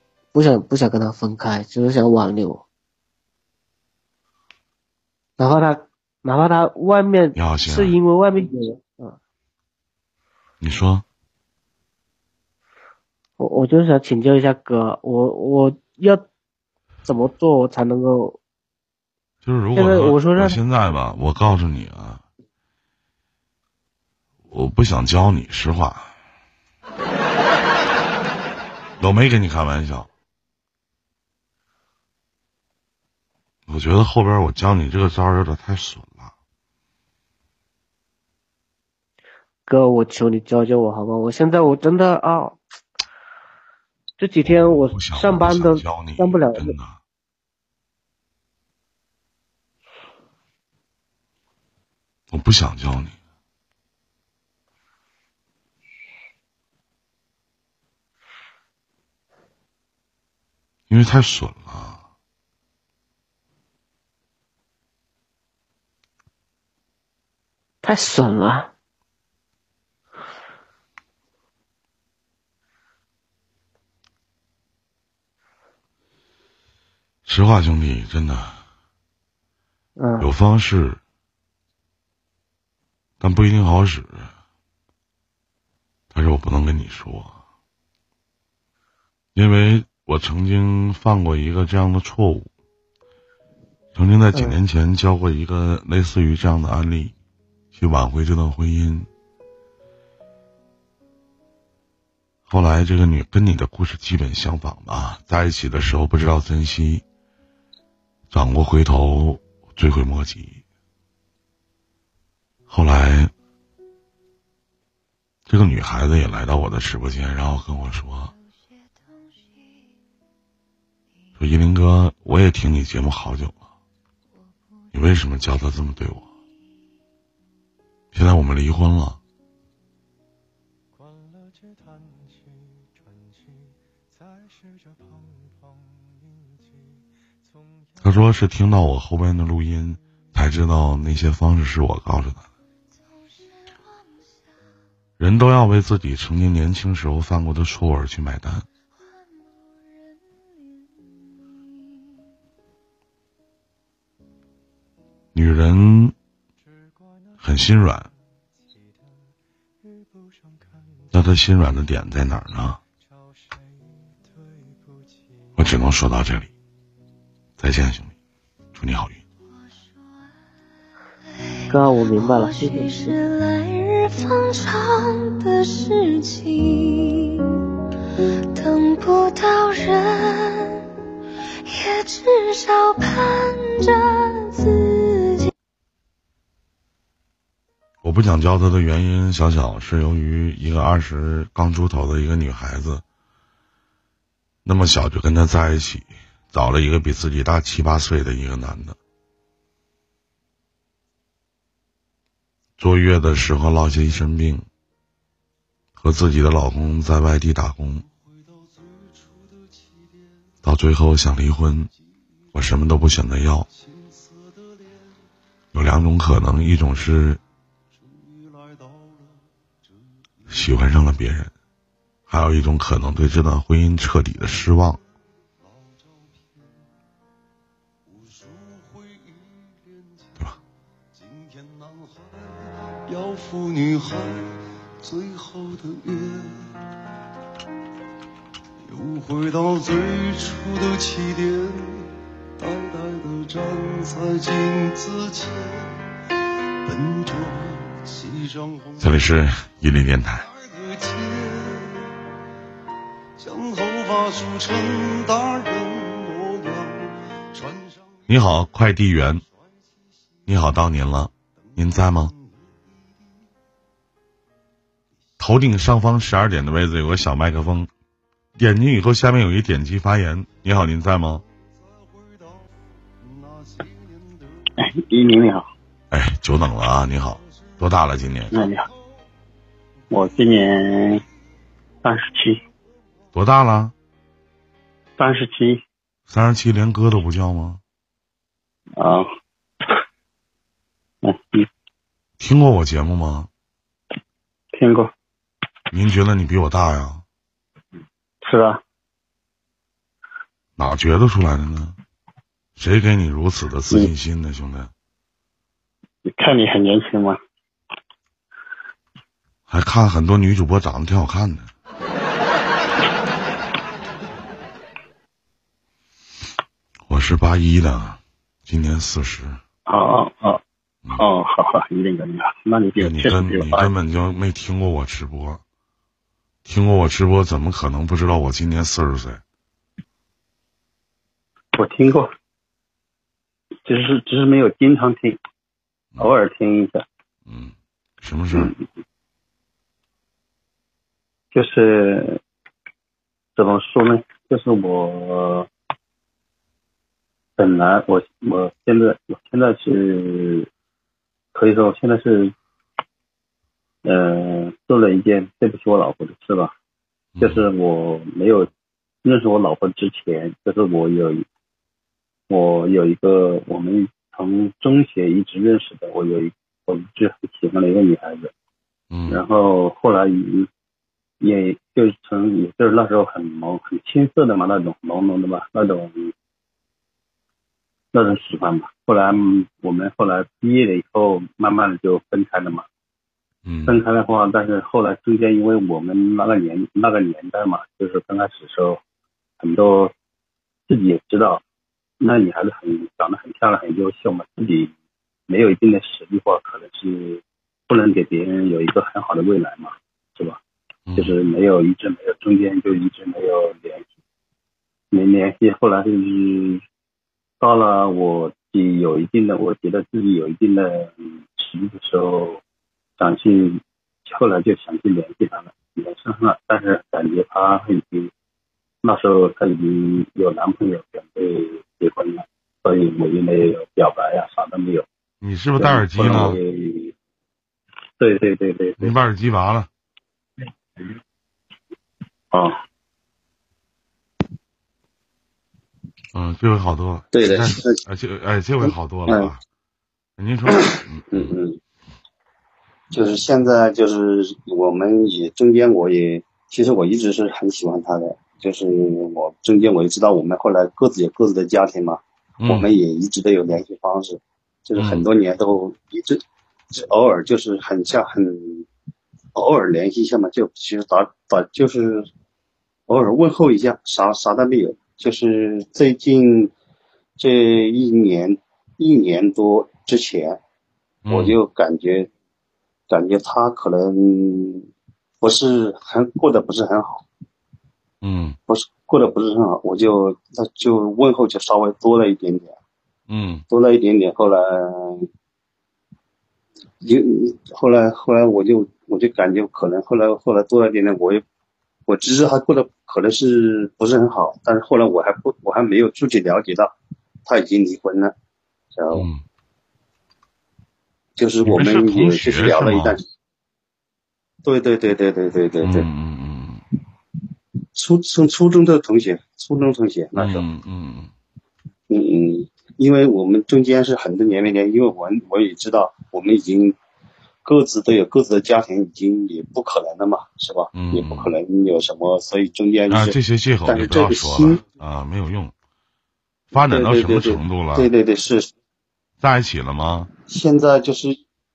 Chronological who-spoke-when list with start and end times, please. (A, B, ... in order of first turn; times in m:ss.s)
0:00.3-0:02.6 A
0:05.4-0:09.2 A
0:07.4-0:08.0 B
0:10.6-0:11.0 B
0:13.4-0:16.3 A
0:17.1-0:18.4 A
0:19.4-0:22.2 B
0:19.8-0:20.6 A
0:24.5-0:26.1 B
0:29.0-0:30.1 B
0:33.7-0:36.3 B
0:39.7-0:42.6 A
0:44.2-0:46.8 A
0:44.4-0:47.0 B
0:52.3-0:53.2 B
1:00.9-1:02.0 B
1:07.8-1:08.7 A
1:17.3-1:18.6 B
1:20.0-1:20.3 A
1:20.2-1:21.0 B
1:23.2-1:24.3 B
1:26.1-1:27.4 B
1:29.4-1:32.5 B
1:34.0-1:37.1 B
1:34.3-1:34.6 A
1:37.7-1:39.1 B
1:42.5-1:47.0 B
1:48.3-1:50.6 B
1:52.7-1:53.3 B
1:55.5-1:58.3 B
2:01.4-2:03.6 B
2:04.9-2:06.3 B
2:08.1-2:09.2 B
2:18.0-2:22.5 B
2:25.2-2:28.7 B
2:35.4-2:36.2 B
2:37.4-2:38.1 B
2:41.1-2:42.8 B
2:45.6-2:46.5 B
2:47.6-2:48.1 B
2:48.8-2:49.2 B
2:51.7-2:53.2 A
2:51.7-2:57.4 C
2:58.6-3:00.8 C
3:01.7-3:05.5 C
3:08.0-3:13.0 B
3:14.6-3:19.0 B
3:22.8-3:24.7 B
3:26.0-3:28.1 B
3:30.6-3:31.9 B
3:32.5-3:33.7 B
3:35.7-3:37.4 B
3:40.5-3:41.5 B
3:42.3-3:45.0 B
3:53.2-3:54.6 D
3:55.1-3:56.7 D
3:59.0-4:01.8 D
4:02.7-4:05.8 D
4:06.9-4:07.8 D
4:09.0-4:10.5 B
4:11.1-4:12.1 D
4:13.5-4:17.0 D
4:18.3-4:19.4 B
4:20.5-4:22.3 B
4:25.4-4:27.9 B
4:28.6-4:31.4 B
4:35.1-4:35.6 E
4:36.1-4:38.6 B
4:38.5-4:38.8 E
4:40.1-4:41.2 E
4:42.0-4:42.6 E
4:43.3-4:43.9 B
4:45.2-4:45.8 E
4:46.3-4:47.8 B
4:52.4-4:53.5 B
4:54.8-4:55.1 E
4:55.9-4:57.2 B
4:58.4-4:58.8 E
5:00.8-5:02.0 B
5:02.8-5:04.9 B
5:06.3-5:07.4 E
5:09.7-5:11.7 B
5:17.1-5:19.6 B
5:19.9-5:20.6 E
5:21.2-5:23.8 E
5:23.0-5:25.6 B
5:26.7-5:29.4 B
5:31.8-5:32.3 E
5:33.9-5:35.4 E
5:36.2-5:37.0 E
5:37.5-5:38.7 B
5:41.5-5:42.2 E
5:43.6-5:45.7 E
5:47.6-5:50.7 E
5:51.6-5:52.5 E
5:54.0-5:56.7 E
5:57.4-5:57.7 B
5:57.4-5:58.7 E
5:59.2-6:01.4 E
6:02.5-6:08.5 E
6:09.1-6:09.4 B
6:09.3-6:10.7 E
6:11.4-6:16.2 E
6:18.1-6:22.8 E
6:23.6-6:24.0 B
6:23.9-6:29.0 E
6:29.6-6:30.1 E
6:30.9-6:31.6 E
6:32.2-6:34.9 E
6:35.5-6:37.4 E
6:37.9-6:40.6 E
6:41.1-6:41.4 B
6:41.2-6:44.0 E
6:45.1-6:46.8 E
6:47.6-6:51.1 E
6:51.6-6:52.6 E
6:53.2-6:58.3 E
6:59.0-7:05.0 E
7:05.4-7:06.6 B
7:06.1-7:07.1 E
7:06.2-7:06.6 F
7:08.2-7:09.1 E
7:09.0-7:09.9 B
7:16.3-7:19.6 B
7:17.3-7:18.0 F
7:18.8-7:19.5 F
7:20.4-7:21.6 B
7:20.9-7:21.8 F
7:23.1-7:38.9 F
7:32.6-7:32.9 B
7:35.0-7:35.3 B
7:39.6-7:42.3 F
7:43.1-7:46.7 F
7:47.4-7:50.6 F
7:51.2-7:51.6 B
7:51.3-7:52.3 F
7:53.1-7:54.9 F
7:55.4-7:57.3 F
7:58.2-7:58.6 B
7:58.7-8:02.8 F
8:03.3-8:03.6 B
8:03.7-8:05.3 F
8:07.0-8:11.4 F
8:12.1-8:17.0 F
8:17.5-8:18.3 F
8:19.0-8:19.3 F
8:19.1-8:19.4 B
8:21.4-8:23.2 F
8:21.6-8:23.2 B
8:24.6-8:26.1 F
8:25.8-8:26.8 B
8:28.0-8:30.7 F
8:30.4-8:31.3 B
8:32.1-8:37.0 F
8:37.6-8:44.8 F
8:40.9-8:41.6 B
8:43.1-8:45.7 B
8:46.7-8:48.1 B
8:46.7-8:48.7 F
8:49.4-8:50.3 B
8:50.5-8:51.4 F